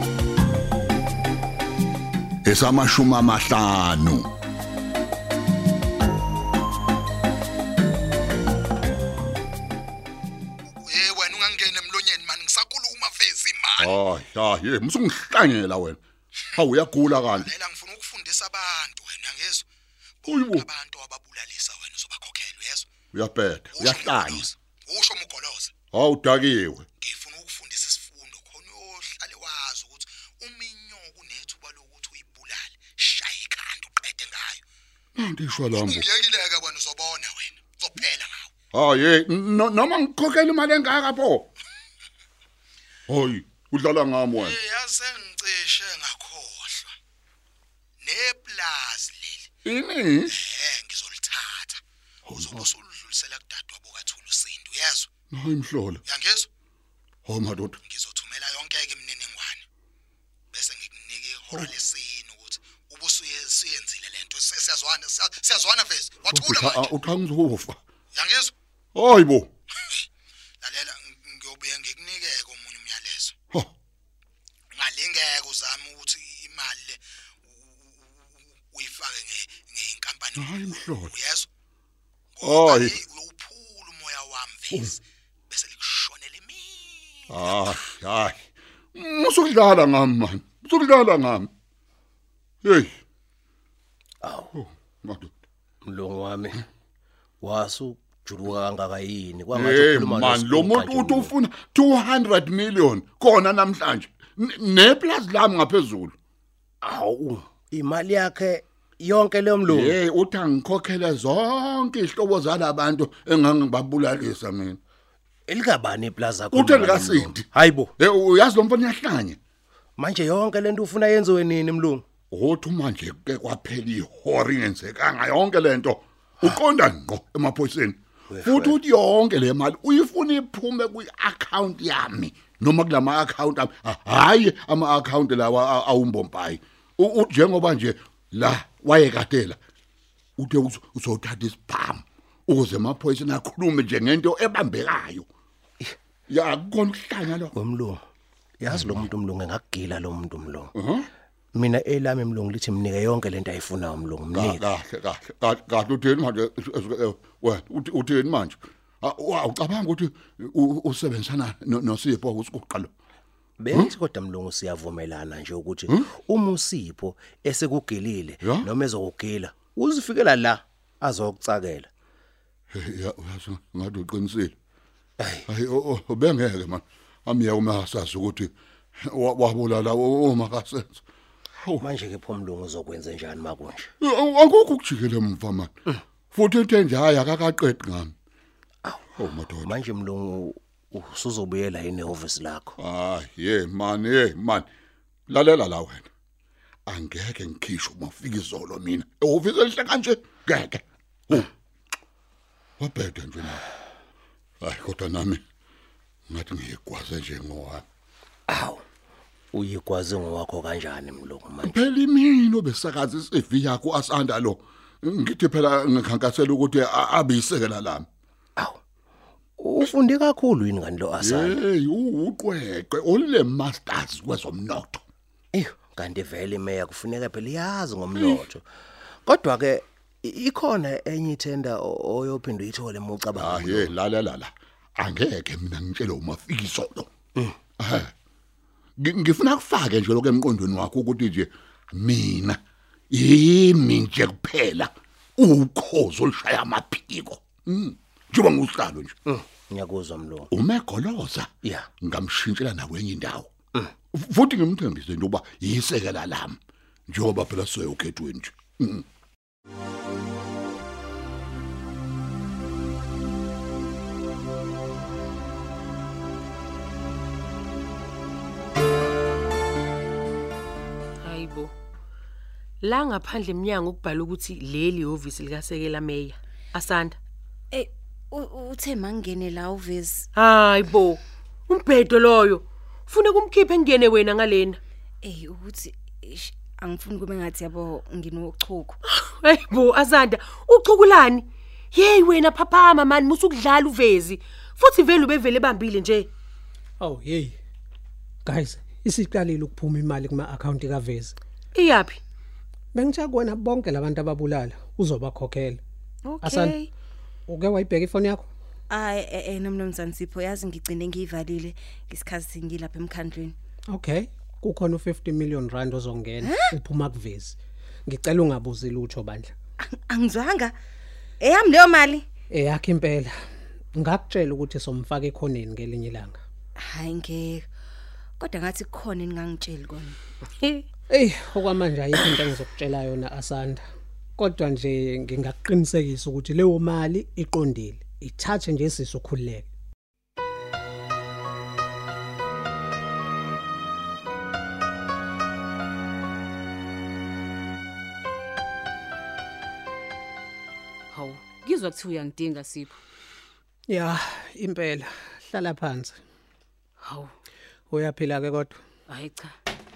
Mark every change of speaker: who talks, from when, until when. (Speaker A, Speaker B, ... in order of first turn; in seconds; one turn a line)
Speaker A: 2.4-4.3
Speaker B: 10.9-13.9
Speaker A: 13.8-16.0
Speaker A: 16.5-17.5
Speaker B: 17.3-19.6
Speaker A: 20.2-20.7
Speaker B: 20.2-22.8
Speaker A: 23.1-24.5
Speaker B: 23.7-25.7
Speaker A: 25.9-26.9
Speaker B: 27.0-34.6
Speaker A: 35.1-36.0
Speaker B: 35.7-38.5
Speaker A: 38.7-41.5
Speaker A: 43.1-44.6
Speaker B: 44.4-46.9
Speaker B: 48.0-49.5
Speaker A: 49.6-50.4
Speaker B: 50.3-51.8
Speaker A: 52.2-52.7
Speaker B: 52.4-55.1
Speaker A: 55.3-56.0
Speaker B: 56.0-56.5
Speaker A: 57.2-57.8
Speaker B: 57.9-59.6
Speaker B: 60.5-66.9
Speaker A: 66.2-67.8
Speaker B: 68.1-68.5
Speaker A: 68.9-69.5
Speaker B: 70.6-73.3
Speaker B: 74.7-77.0
Speaker B: 78.7-81.5
Speaker A: 80.3-81.2
Speaker A: 82.4-83.0
Speaker B: 82.4-84.9
Speaker A: 84.7-85.0
Speaker B: 85.5-87.6
Speaker A: 87.3-91.5
Speaker A: 92.6-93.0
Speaker C: 94.2-94.5
Speaker A: 94.5-95.3
Speaker C: 95.8-96.6
Speaker C: 97.4-101.3
Speaker A: 99.5-106.2
Speaker C: 106.8-110.0
Speaker A: 109.7-114.8
Speaker C: 115.5-117.9
Speaker A: 116.5-117.5
Speaker A: 118.0-119.4
Speaker C: 120.0-122.0
Speaker A: 122.3-139.6
Speaker C: 128.3-128.8
Speaker A: 140.4-145.3
Speaker A: 146.3-147.6
Speaker C: 147.5-148.0
Speaker C: 148.6-150.7
Speaker A: 148.7-149.1
Speaker A: 150.7-151.1
Speaker C: 151.5-154.7
Speaker A: 154.3-162.9
Speaker C: 163.6-171.9
Speaker A: 163.7-163.9
Speaker A: 165.9-166.1
Speaker A: 168.4-168.7
Speaker A: 172.7-174.6
Speaker A: 175.4-181.0
Speaker A: 181.5-181.9
Speaker C: 181.8-183.9
Speaker A: 184.0-185.7
Speaker A: 186.3-188.1
Speaker C: 188.8-192.7
Speaker A: 189.1-189.8
Speaker A: 192.8-194.7
Speaker A: 195.3-196.1
Speaker A: 196.9-201.5
Speaker A: 202.8-203.6
Speaker A: 204.6-205.4
Speaker A: 206.3-207.8
Speaker C: 208.5-208.8
Speaker C: 209.5-211.8
Speaker A: 211.7-218.1
Speaker C: 219.6-221.6
Speaker A: 221.2-225.0
Speaker C: 225.5-228.6
Speaker C: 229.2-233.9
Speaker A: 233.3-237.1
Speaker A: 237.8-238.1
Speaker A: 239.0-242.6
Speaker A: 243.1-249.2
Speaker C: 249.3-250.5
Speaker A: 250.5-253.5
Speaker A: 254.1-259.1
Speaker D: 271.2-271.7
Speaker D: 272.8-277.2
Speaker E: 277.7-280.3
Speaker D: 280.3-284.8
Speaker E: 285.2-289.0
Speaker D: 289.1-296.3
Speaker F: 297.0-297.6
Speaker F: 298.4-301.4
Speaker D: 301.7-302.2
Speaker F: 302.9-305.8
Speaker E: 306.2-306.9
Speaker F: 306.4-306.8
Speaker F: 307.5-308.5
Speaker E: 308.9-313.5
Speaker F: 313.9-319.5
Speaker E: 316.4-316.7
Speaker E: 319.8-320.7
Speaker E: 321.4-322.2
Speaker F: 322.5-323.3
Speaker F: 323.9-326.4
Speaker E: 326.8-327.6
Speaker E: 328.4-330.2
Speaker F: 331.1-333.8
Speaker F: 334.4-339.7
Speaker G: 351.1-353.0
Speaker F: 353.9-356.2
Speaker G: 357.0-357.3
Speaker F: 357.9-358.8
Speaker G: 359.1-359.5